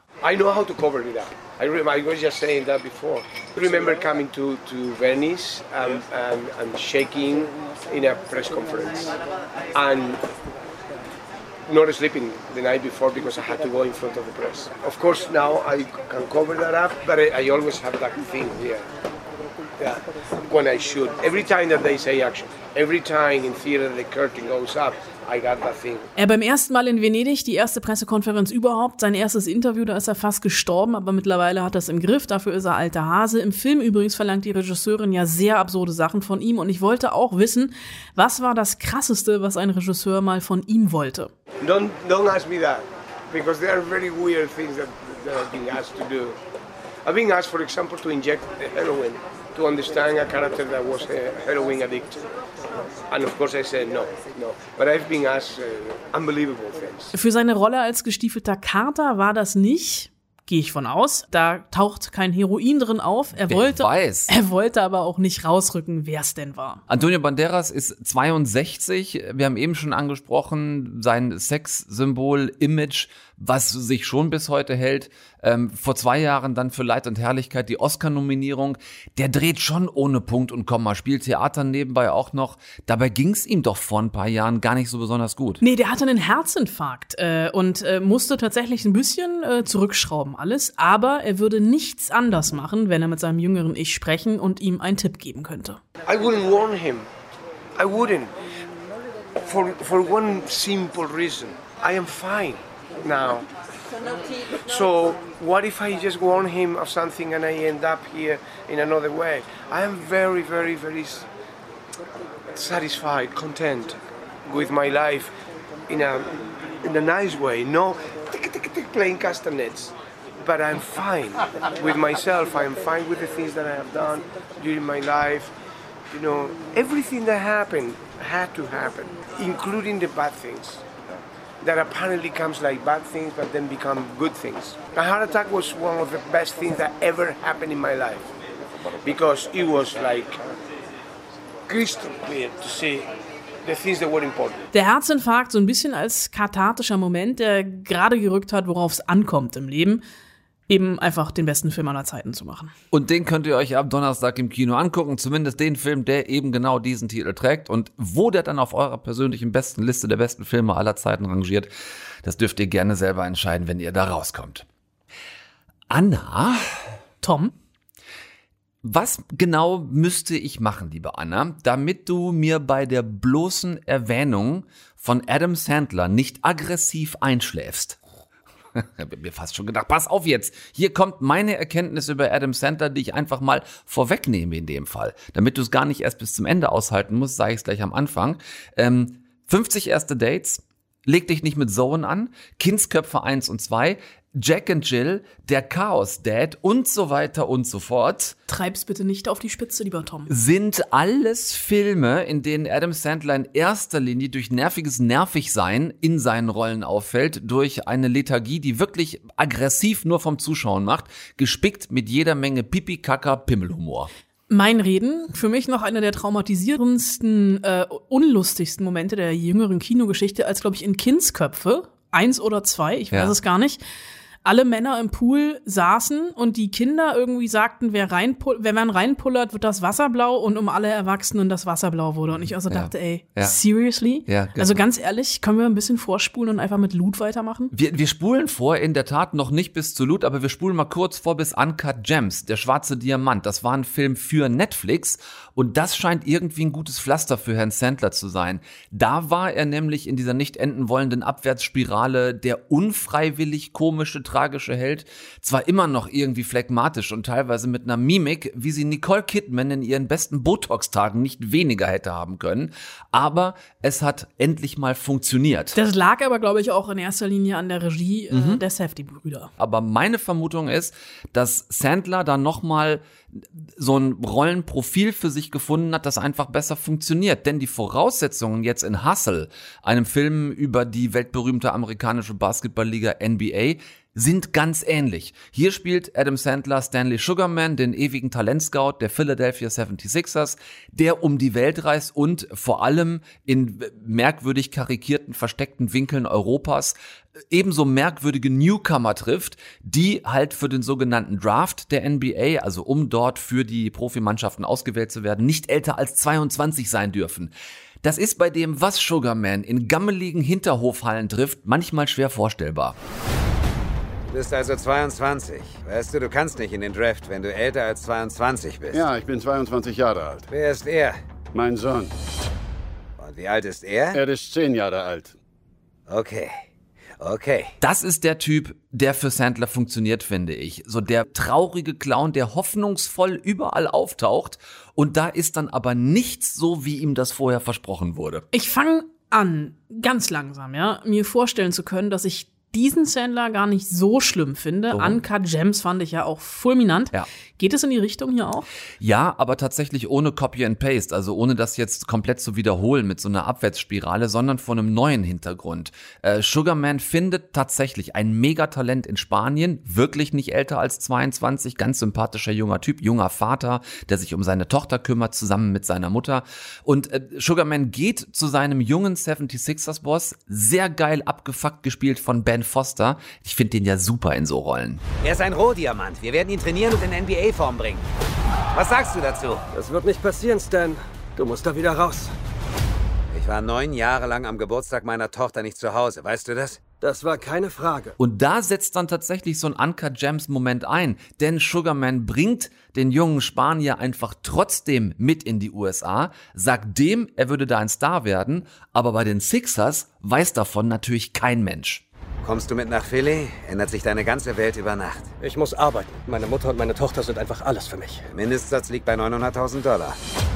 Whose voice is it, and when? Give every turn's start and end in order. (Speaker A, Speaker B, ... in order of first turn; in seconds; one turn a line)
Speaker A: 0.2-9.2
Speaker A: 9.7-10.2
Speaker A: 11.7-18.8
Speaker A: 19.8-26.1
Speaker B: 26.1-41.3
Speaker A: 41.6-46.4
Speaker A: 47.0-52.2
Speaker A: 53.1-57.1
Speaker B: 57.1-66.8
Speaker C: 63.5-64.3
Speaker C: 66.9-85.6
Speaker B: 85.6-95.8
Speaker A: 96.1-97.1
Speaker A: 97.8-98.3
Speaker A: 99.4-103.5
Speaker A: 104.5-111.3
Speaker A: 112.5-115.3
Speaker A: 115.9-125.5
Speaker A: 126.1-130.8
Speaker A: 131.6-138.3
Speaker A: 139.0-140.4
Speaker A: 141.7-143.1
Speaker A: 143.6-144.7
Speaker B: 144.7-150.0
Speaker B: 150.7-152.7
Speaker C: 152.9-161.7
Speaker C: 162.2-164.7
Speaker C: 165.9-166.7
Speaker B: 167.2-167.5
Speaker C: 168.8-178.0
Speaker C: 178.7-198.3
Speaker B: 198.5-200.3
Speaker C: 200.3-214.1
Speaker B: 214.5-223.8
Speaker B: 224.4-237.7
Speaker C: 232.7-233.6
Speaker C: 234.2-234.8
Speaker C: 237.7-265.8
Speaker B: 265.7-269.5
Speaker C: 268.3-268.6
Speaker C: 269.6-296.9
Speaker C: 297.5-312.9
Speaker D: 314.3-319.0
Speaker E: 318.9-320.5
Speaker D: 320.5-321.2
Speaker E: 321.5-322.1
Speaker D: 323.2-324.2
Speaker E: 324.1-325.4
Speaker D: 326.1-326.6
Speaker D: 327.2-327.7
Speaker C: 327.8-338.4
Speaker B: 338.5-348.7
Speaker C: 344.9-345.2
Speaker C: 349.0-375.0
Speaker D: 375.2-378.0
Speaker D: 378.7-379.7
Speaker F: 379.7-382.3
Speaker D: 383.3-387.0
Speaker F: 386.9-388.1
Speaker C: 388.2-402.0
Speaker D: 402.4-405.4
Speaker F: 405.4-408.2
Speaker D: 408.3-410.1